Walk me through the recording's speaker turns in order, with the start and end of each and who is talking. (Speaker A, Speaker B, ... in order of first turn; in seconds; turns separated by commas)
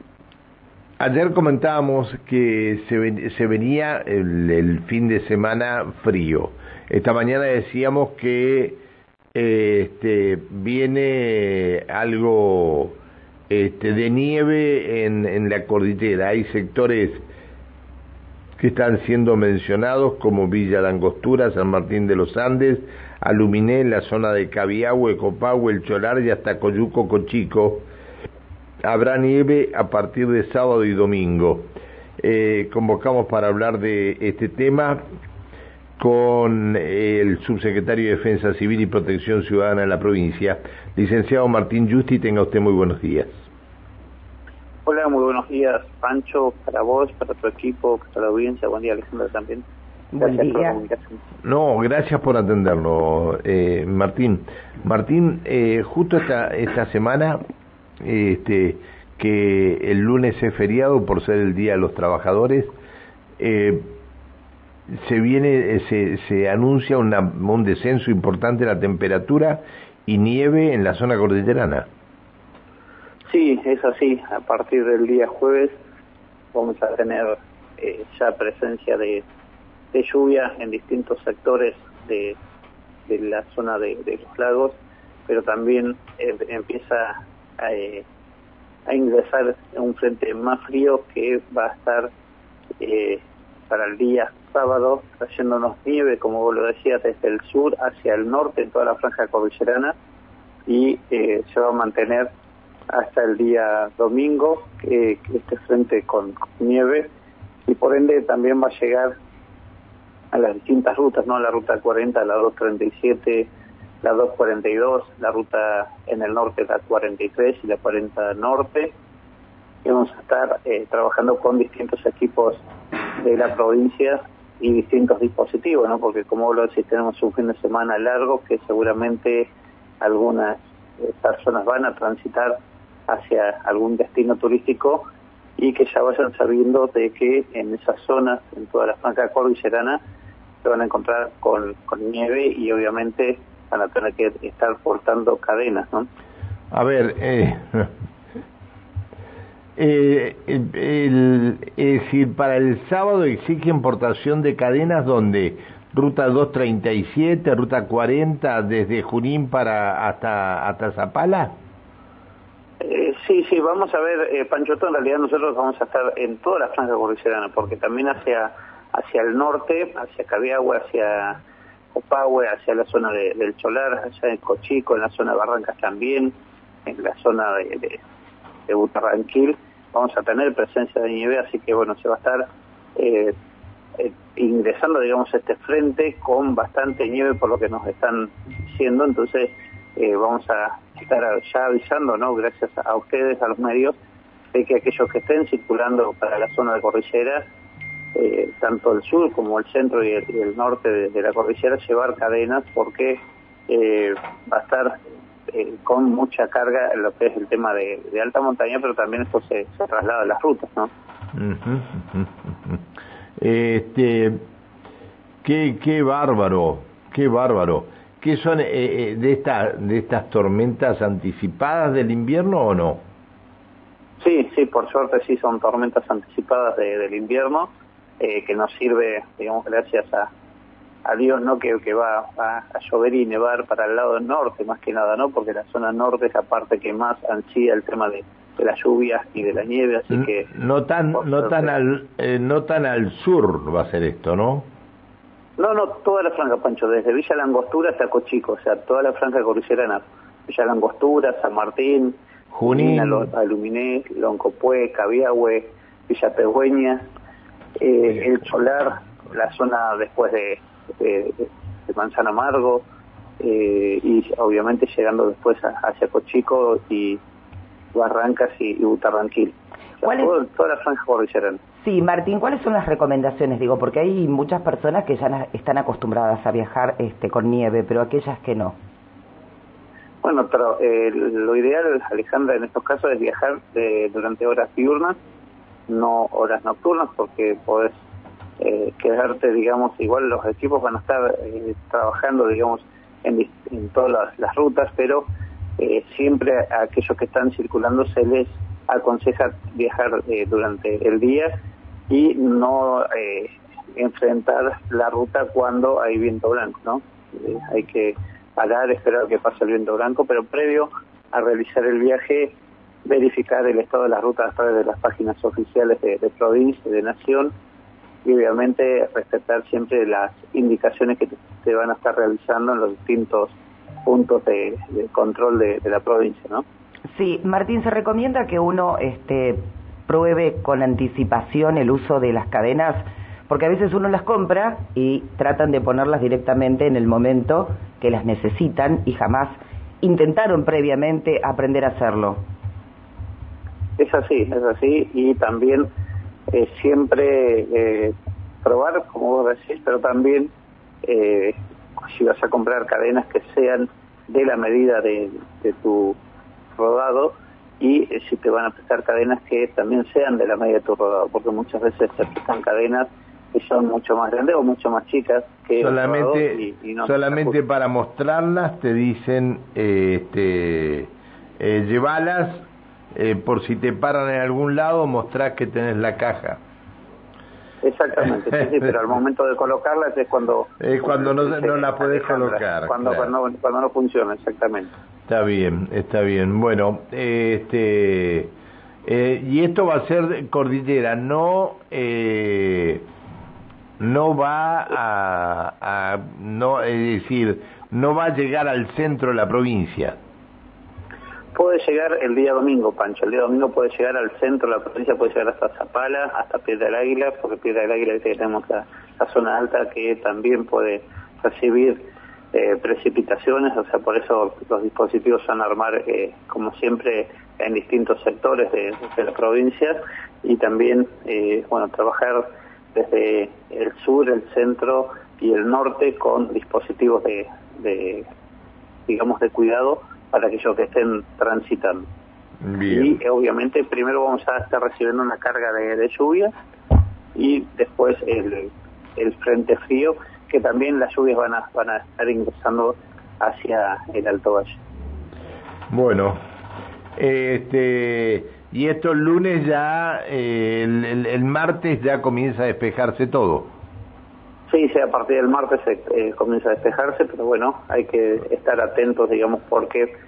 Speaker A: 1.0-8.8, Speaker A: 9.3-13.0, Speaker A: 13.5-17.2, Speaker A: 18.6-27.9, Speaker A: 28.8-35.0, Speaker A: 36.0-43.5, Speaker B: 44.9-49.6, Speaker C: 50.1-50.8, Speaker B: 50.2-51.2, Speaker A: 51.4-57.4, Speaker A: 58.0-62.7, Speaker A: 63.4-63.9, Speaker A: 64.9-71.9, Speaker B: 73.3-75.8, Speaker B: 76.5-79.2, Speaker B: 79.9-82.4, Speaker B: 83.1-88.0, Speaker B: 88.9-92.1, Speaker B: 92.8-99.9, Speaker B: 100.7-102.3, Speaker B: 102.9-107.1, Speaker B: 107.7-109.1, Speaker B: 110.3-113.5, Speaker B: 114.0-118.9, Speaker B: 119.8-122.6, Speaker B: 123.2-129.5, Speaker B: 130.0-132.6, Speaker B: 133.1-135.1, Speaker B: 135.6-140.0, Speaker B: 140.6-146.1, Speaker A: 146.7-147.9, Speaker A: 149.8-161.5, Speaker B: 162.8-171.4, Speaker B: 171.9-176.3, Speaker B: 176.8-178.0, Speaker B: 178.7-183.3, Speaker B: 184.0-193.9, Speaker B: 194.5-197.4, Speaker B: 198.1-204.9, Speaker B: 205.5-210.9, Speaker A: 211.3-212.8, Speaker A: 213.4-214.4, Speaker A: 215.4-223.0, Speaker B: 224.2-230.3, Speaker B: 231.0-240.5, Speaker A: 240.1-244.7, Speaker B: 241.1-241.7, Speaker B: 245.6-257.1, Speaker A: 252.5-253.3, Speaker B: 257.8-262.8, Speaker B: 263.4-267.2, Speaker B: 267.9-271.6, Speaker C: 270.0-270.3, Speaker C: 271.8-278.8, Speaker B: 280.2-285.1, Speaker B: 285.9-288.0, Speaker B: 288.6-295.3, Speaker B: 295.8-301.5, Speaker B: 302.1-317.5, Speaker B: 318.2-326.6, Speaker C: 327.1-342.4, Speaker B: 344.0-345.9, Speaker B: 346.5-350.5, Speaker B: 351.0-356.2, Speaker B: 356.8-367.6, Speaker A: 365.8-376.6, Speaker B: 377.8-384.9, Speaker A: 380.8-383.3, Speaker A: 385.3-388.5, Speaker A: 389.0-393.0, Speaker A: 394.0-400.2, Speaker B: 401.5-428.3, Speaker B: 429.1-432.1, Speaker A: 432.6-433.2, Speaker B: 432.9-436.5, Speaker B: 437.3-444.8, Speaker A: 445.9-446.4, Speaker A: 447.2-453.7, Speaker B: 454.7-460.1